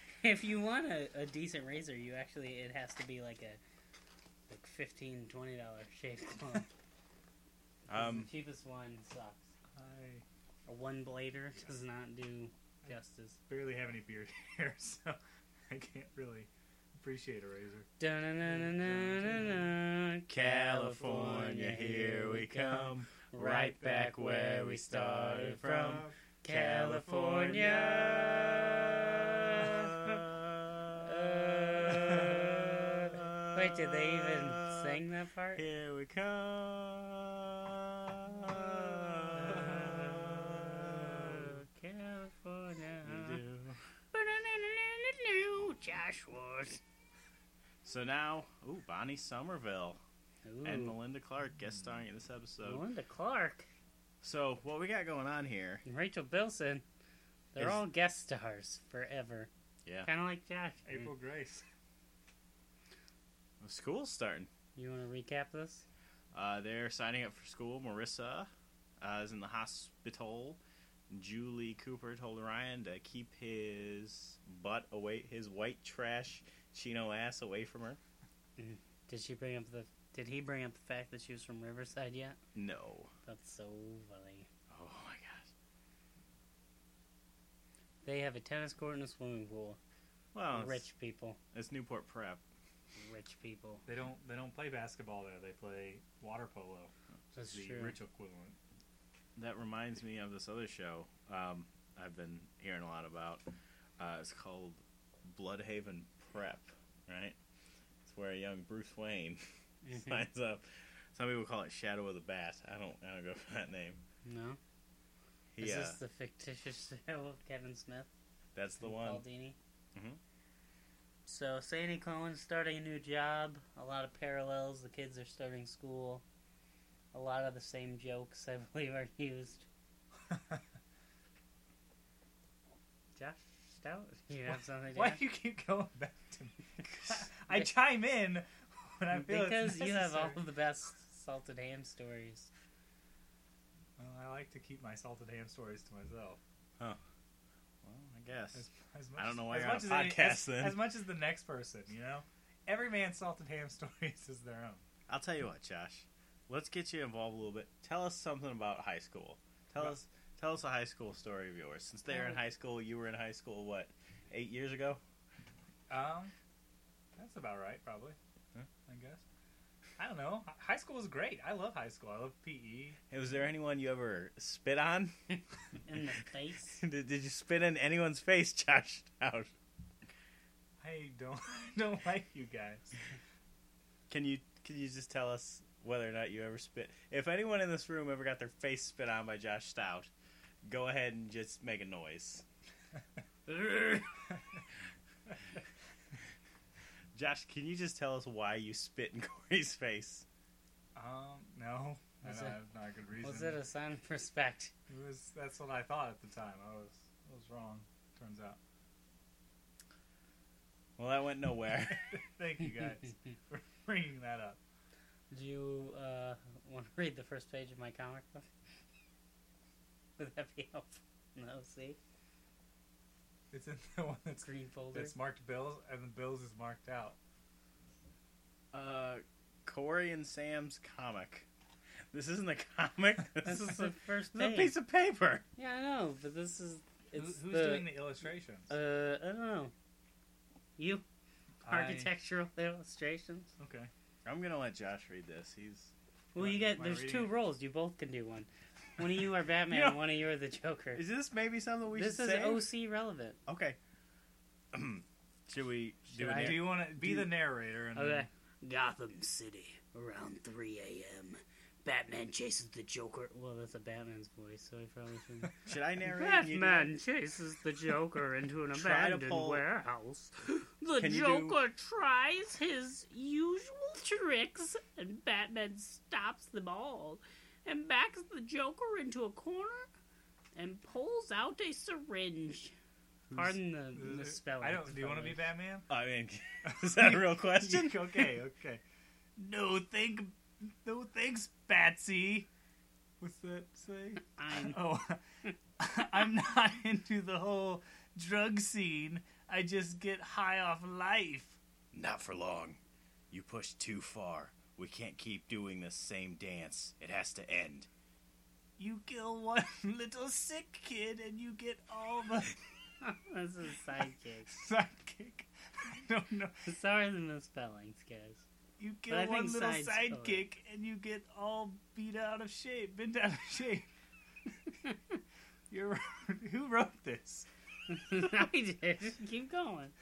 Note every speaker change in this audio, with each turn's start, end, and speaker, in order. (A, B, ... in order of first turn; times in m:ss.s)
0:00.2-0:03.6 A
0:04.5-0:06.7 A
0:07.9-0:08.3 B
0:07.9-0:09.5 A
0:09.8-0:10.2 C
0:10.7-0:13.4 A
0:13.5-0:15.2 C
0:15.7-0:17.9 C
0:18.0-0:30.2 A
0:18.5-0:19.7 C
0:20.3-0:35.0 B
0:31.0-0:35.6 A
0:35.6-0:41.6 B
0:39.4-0:40.3 A
0:41.2-0:43.4 A
0:43.0-0:43.8 B
0:44.1-0:46.8 A
0:47.8-0:50.0 B
0:50.4-0:51.0 A
0:50.6-0:52.8 B
0:52.6-0:53.7 A
0:54.2-0:55.8 B
0:55.8-0:56.8 A
0:57.5-0:59.5 A
1:00.0-1:01.1 A
1:00.9-1:01.6 C
1:03.6-1:04.5 B
1:04.8-1:05.8 A
1:06.3-1:18.0 B
1:18.6-1:22.4 A
1:22.6-1:23.1 B
1:23.3-1:24.5 A
1:24.7-1:25.5 B
1:28.0-1:29.8 A
1:30.3-1:30.9 B
1:30.5-1:31.4 A
1:31.5-1:32.4 B
1:33.0-1:33.8 A
1:33.9-1:38.6 C
1:37.4-1:38.0 A
1:39.4-1:43.4 B
1:44.0-1:47.4 B
1:48.0-1:54.0 B
1:49.8-1:50.3 A
1:54.2-1:54.6 A
1:55.6-1:56.0 B
1:55.6-1:58.1 A
1:58.6-1:59.2 B
1:58.8-1:59.6 A
2:00.0-2:00.2 B
2:01.3-2:06.2 A
2:07.1-2:09.7 A
2:10.3-2:10.6 C
2:13.2-2:15.2 A
2:14.5-2:20.4 C
2:19.1-2:22.5 A
2:24.0-2:26.4 C
2:27.8-2:28.6 B
2:28.5-2:34.8 C
2:29.2-2:30.8 B
2:35.1-2:45.0 B
2:45.9-2:46.3 C
2:47.2-2:48.2 C
2:48.9-2:49.2 C
2:50.0-2:53.0 C
2:53.1-2:55.1 B
2:55.9-2:56.8 A
2:56.8-2:59.5 B
3:00.8-3:03.0 C
3:04.1-3:10.1 B
3:10.6-3:12.4 B
3:13.5-3:14.1 A
3:17.1-3:20.2 B
3:21.0-3:23.6 C
3:22.2-3:22.6 A
3:23.2-3:24.7 A
3:24.9-3:28.6 C
3:31.0-3:32.1 B
3:31.9-3:34.6 C
3:35.3-3:38.5 A
3:40.2-3:42.0 A
3:43.5-3:47.2 C
3:44.4-3:45.1 A
3:48.7-3:51.5 B
3:52.1-3:55.4 B
3:53.4-3:54.8 A
3:55.6-3:58.0 A
3:57.1-3:58.7 C
3:58.7-3:59.7 A
4:00.8-4:01.0 A
4:01.6-4:02.1 C
4:01.7-4:03.5 A
4:03.6-4:03.9 C
4:04.2-4:05.9 B
4:06.4-4:11.0 A
4:06.4-4:07.3 C
4:09.7-4:10.0 B
4:10.9-4:12.7 B
4:11.9-4:13.4 A
4:13.5-4:13.8 B
4:14.7-4:17.3 B
4:16.1-4:16.7 A
4:16.3-4:18.3 C
4:18.0-4:25.5 A
4:25.7-4:26.9 B
4:26.0-4:39.9 A
4:28.7-4:29.6 B
4:31.0-4:31.6 B
4:40.6-4:42.8 A
4:43.3-4:45.5 A
4:44.0-4:45.9 C
4:45.9-4:48.3 B
4:46.6-4:48.8 C
4:49.4-4:52.5 C
4:53.2-4:55.2 C
4:54.3-4:54.8 A
4:55.8-5:01.6 C
5:01.9-5:02.8 B
5:03.3-5:07.9 B
5:08.8-5:12.6 C
5:13.0-5:14.6 A
5:14.5-5:16.6 C
5:16.7-5:18.4 A
5:18.8-5:23.9 C
5:19.1-5:20.4 A
5:25.7-5:27.5 C
5:27.9-5:29.9 A